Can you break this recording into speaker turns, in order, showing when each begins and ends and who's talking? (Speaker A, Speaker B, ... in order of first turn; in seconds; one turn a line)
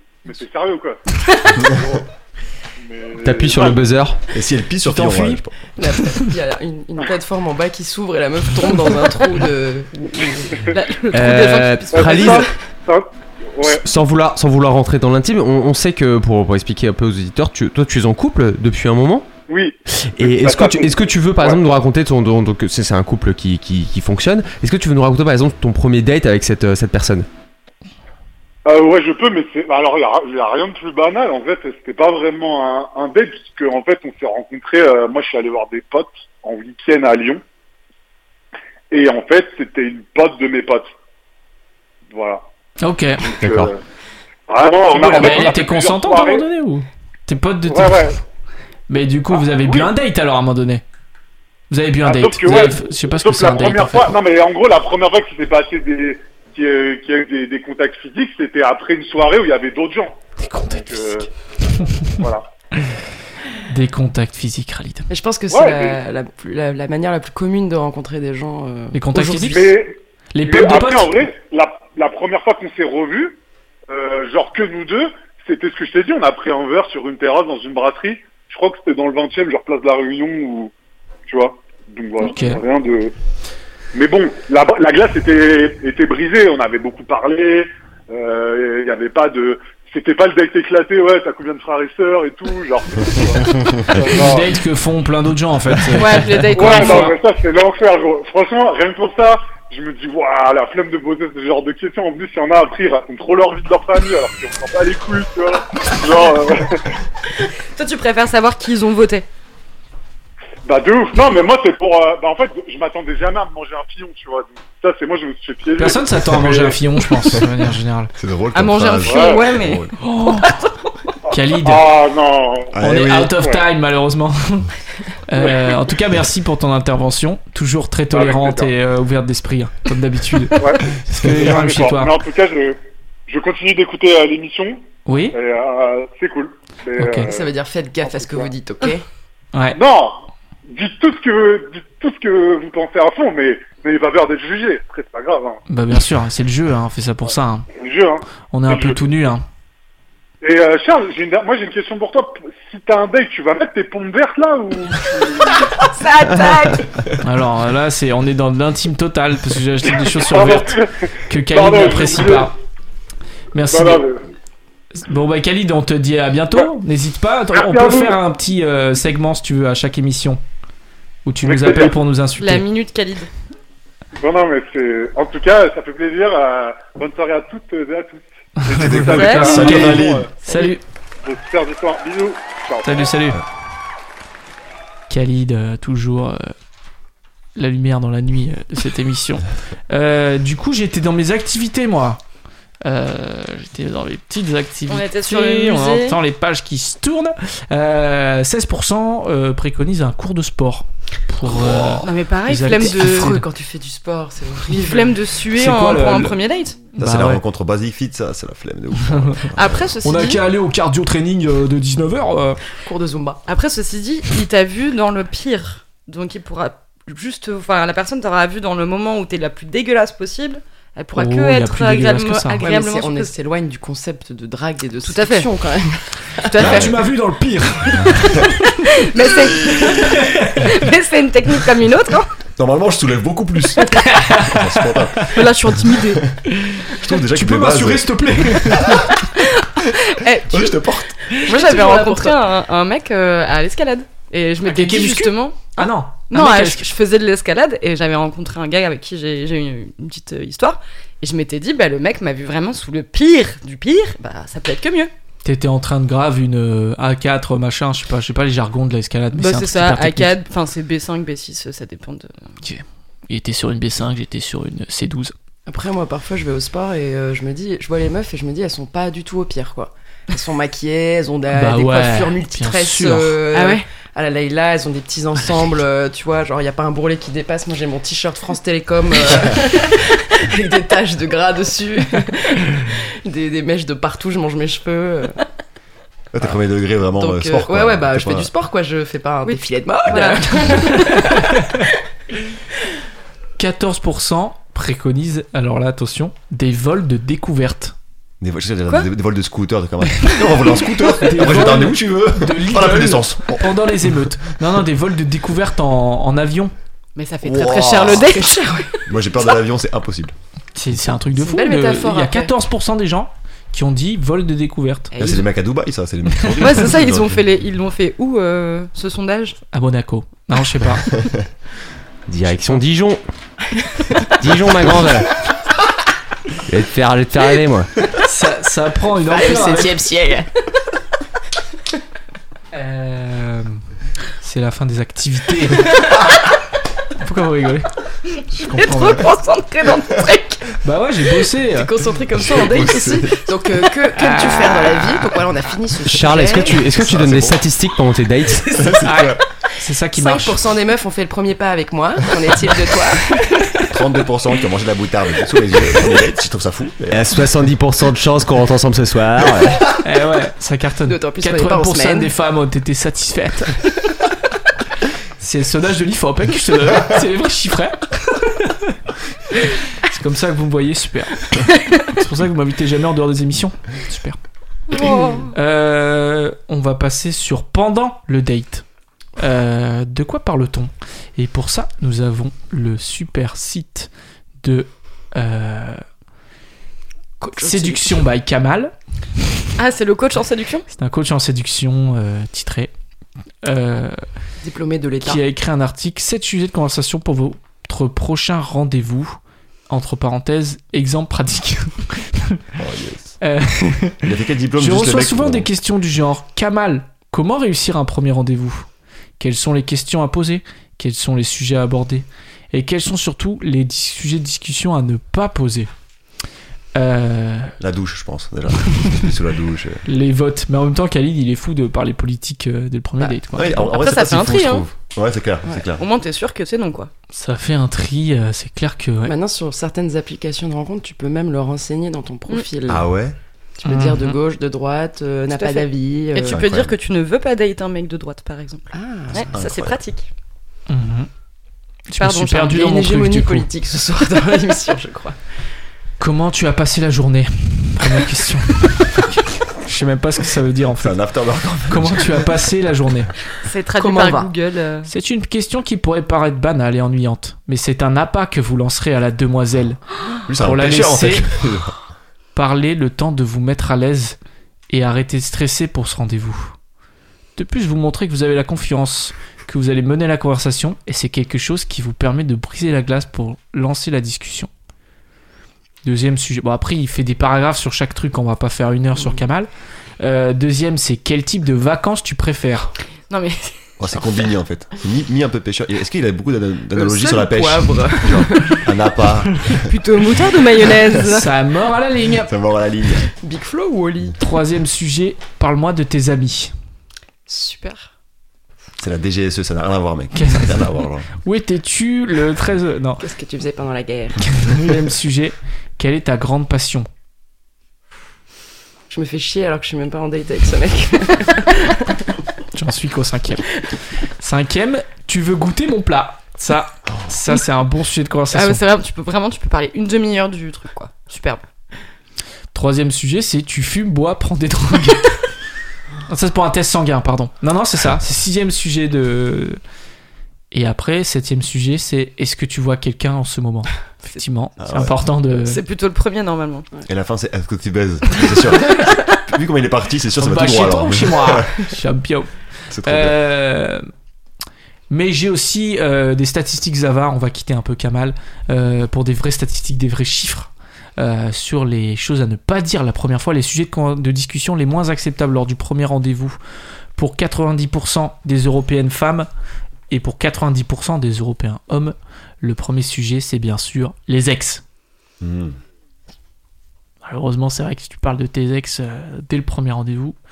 Speaker A: 0.2-1.0
Speaker A: 1.5-2.0
Speaker A: 2.8-3.8
Speaker B: 3.2-4.2
Speaker C: 4.3-5.5
Speaker D: 4.8-5.4
Speaker E: 5.8-10.7
Speaker F: 10.7-12.5
Speaker B: 11.1-12.5
Speaker A: 11.9-13.8
Speaker B: 13.6-19.3
Speaker A: 19.5-21.6
Speaker B: 20.0-27.3
Speaker A: 28.6-37.4
Speaker A: 38.9-40.9
Speaker A: 42.1-42.4
Speaker D: 42.8-43.2
Speaker A: 43.2-43.8
Speaker B: 43.4-43.7
Speaker A: 44.5-46.4
Speaker D: 44.9-48.1
Speaker A: 47.7-48.2
Speaker D: 48.9-50.8
Speaker A: 49.3-49.9
Speaker D: 51.7-54.1
Speaker A: 52.0-60.2
Speaker D: 60.4-61.3
Speaker A: 60.7-61.3
Speaker A: 62.0-62.5
Speaker D: 63.7-65.1
Speaker E: 65.1-69.7
Speaker A: 65.5-66.0
Speaker D: 68.9-69.7
Speaker A: 69.5-80.7
Speaker D: 70.3-71.1
Speaker A: 81.3-83.1
Speaker D: 82.2-82.6
Speaker A: 83.9-94.5
Speaker D: 93.9-97.1
Speaker F: 95.9-97.2
Speaker A: 96.5-106.9
Speaker F: 107.7-109.2
Speaker A: 110.6-116.8
Speaker D: 115.8-118.1
Speaker C: 118.2-119.9
Speaker F: 118.5-120.8
Speaker A: 119.0-119.5
Speaker D: 120.0-120.5
Speaker D: 121.3-121.9
Speaker A: 121.6-122.8
Speaker C: 122.7-123.3
Speaker D: 122.8-124.7
Speaker D: 125.2-132.1
Speaker A: 125.4-125.7
Speaker A: 128.1-128.7
Speaker A: 130.6-137.5
Speaker D: 135.1-135.4
Speaker D: 137.0-137.3
Speaker E: 137.2-139.0
Speaker A: 138.0-138.5
Speaker A: 139.7-145.6
Speaker D: 145.7-147.7
Speaker A: 147.7-149.0
Speaker D: 148.5-149.4
Speaker A: 150.4-155.7
Speaker F: 155.6-156.9
Speaker D: 157.2-160.8
Speaker A: 159.9-162.5
Speaker D: 161.3-162.5
Speaker D: 163.5-164.0
Speaker A: 163.6-164.2
Speaker D: 164.9-170.4
Speaker A: 167.5-168.2
Speaker D: 171.2-172.6
Speaker A: 171.4-171.9
Speaker F: 172.4-173.3
Speaker A: 174.2-180.7
Speaker D: 178.6-180.8
Speaker C: 178.7-180.3
Speaker F: 179.1-179.8
Speaker A: 181.2-183.1
Speaker D: 182.8-183.4
Speaker D: 185.1-186.5
Speaker D: 187.6-192.2
Speaker D: 192.8-203.4
Speaker F: 194.9-196.2
Speaker C: 201.5-202.0
Speaker F: 202.0-203.4
Speaker E: 202.8-205.2
Speaker F: 204.7-206.9
Speaker D: 205.5-206.4
Speaker C: 207.0-209.9
Speaker D: 207.0-207.4
Speaker D: 209.1-209.4
Speaker F: 209.5-210.4
Speaker D: 210.0-212.6
Speaker E: 212.8-213.4
Speaker F: 213.4-223.3
Speaker D: 221.1-222.6
Speaker E: 222.6-226.9
Speaker F: 225.0-225.5
Speaker F: 226.4-227.0
Speaker D: 226.5-228.5
Speaker C: 226.6-226.9
Speaker F: 228.7-232.3
Speaker D: 229.9-230.7
Speaker C: 232.6-235.4
Speaker D: 233.9-235.2
Speaker F: 235.3-236.2
Speaker D: 236.5-239.2
Speaker C: 236.9-239.1
Speaker F: 239.4-255.1
Speaker C: 240.5-241.1
Speaker E: 241.4-242.4
Speaker D: 244.7-246.8
Speaker D: 255.4-260.3
Speaker F: 259.4-262.5
Speaker D: 262.6-265.3
Speaker E: 265.6-285.4
Speaker D: 271.5-273.4
Speaker F: 273.5-273.8
Speaker C: 286.3-288.5
Speaker E: 287.1-291.8
Speaker F: 289.4-291.2
Speaker D: 293.6-297.9
Speaker C: 298.4-303.8
Speaker D: 300.1-306.7
Speaker F: 307.1-309.0
Speaker C: 307.4-308.2
Speaker E: 308.2-309.0
Speaker C: 309.1-310.3
Speaker D: 310.7-315.1
Speaker E: 311.4-312.5
Speaker F: 315.1-315.4
Speaker C: 315.2-317.4
Speaker F: 316.6-319.6
Speaker D: 319.7-321.1
Speaker B: 322.3-323.2
Speaker B: 324.4-325.3
Speaker B: 326.7-327.9
Speaker D: 328.2-330.0
Speaker E: 329.3-330.5
Speaker D: 332.7-333.8
Speaker D: 334.4-336.0
Speaker D: 337.2-337.9
Speaker D: 338.5-339.3
Speaker F: 338.6-340.7
Speaker D: 340.8-341.9
Speaker E: 341.7-346.9
Speaker C: 342.4-343.4
Speaker D: 344.1-345.3
Speaker B: 346.1-348.8
Speaker C: 346.9-347.6
Speaker C: 348.7-349.4
Speaker D: 349.0-350.6
Speaker E: 350.1-353.8
Speaker C: 353.9-357.3
Speaker B: 357.1-359.8
Speaker D: 360.0-363.8
Speaker E: 361.1-362.3
Speaker D: 365.4-369.0
Speaker D: 369.5-374.4
Speaker F: 374.9-375.5
Speaker D: 375.5-378.8
Speaker D: 379.4-384.1
Speaker D: 384.6-386.0
Speaker E: 387.4-388.2
Speaker D: 387.6-388.9
Speaker F: 389.8-390.9
Speaker D: 390.9-392.9
Speaker D: 393.6-394.2
Speaker E: 394.6-395.4
Speaker D: 395.2-399.4
Speaker D: 399.9-402.6
Speaker C: 402.8-403.4
Speaker D: 403.4-408.9
Speaker C: 404.2-405.7
Speaker D: 409.4-415.9
Speaker D: 416.9-417.7
Speaker C: 417.8-420.0
Speaker D: 420.1-423.9
Speaker C: 423.5-426.0
Speaker F: 423.8-424.8
Speaker F: 425.9-427.1
Speaker D: 427.3-429.3
Speaker E: 429.2-433.1
Speaker C: 432.9-433.4
Speaker E: 433.8-436.6
Speaker D: 433.8-434.4
Speaker F: 435.5-440.3
Speaker C: 436.4-436.9
Speaker E: 438.9-439.5
Speaker C: 439.5-440.0
Speaker D: 440.9-441.3
Speaker D: 442.1-443.7
Speaker F: 442.2-442.8
Speaker E: 442.6-445.4
Speaker D: 446.2-451.2
Speaker C: 451.0-452.5
Speaker D: 451.9-453.3
Speaker F: 453.6-455.1
Speaker E: 454.0-454.5
Speaker D: 455.1-460.0
Speaker C: 460.5-461.9
Speaker D: 460.6-461.5
Speaker D: 462.6-464.4
Speaker D: 464.9-466.7
Speaker D: 467.6-474.7
Speaker D: 476.0-479.7
Speaker D: 480.2-482.9
Speaker F: 483.3-484.2
Speaker C: 484.0-489.9
Speaker E: 486.9-488.8
Speaker F: 489.7-491.5
Speaker D: 491.2-492.5
Speaker C: 492.4-493.3
Speaker E: 493.3-494.4
Speaker D: 494.4-496.7
Speaker F: 497.5-498.1
Speaker C: 499.0-501.3
Speaker D: 500.3-503.2
Speaker E: 503.2-504.6
Speaker D: 504.6-507.1
Speaker E: 509.1-512.2
Speaker D: 512.7-518.8
Speaker F: 518.5-521.6
Speaker D: 522.7-525.5
Speaker D: 526.3-529.8
Speaker D: 530.7-535.8
Speaker C: 534.8-535.2
Speaker F: 535.5-536.9
Speaker C: 537.1-541.9
Speaker D: 540.4-542.5
Speaker C: 542.9-543.3
Speaker D: 543.0-544.0
Speaker D: 545.1-556.6
Speaker D: 557.1-559.5
Speaker D: 560.1-564.8
Speaker C: 565.4-565.8
Speaker D: 567.2-570.4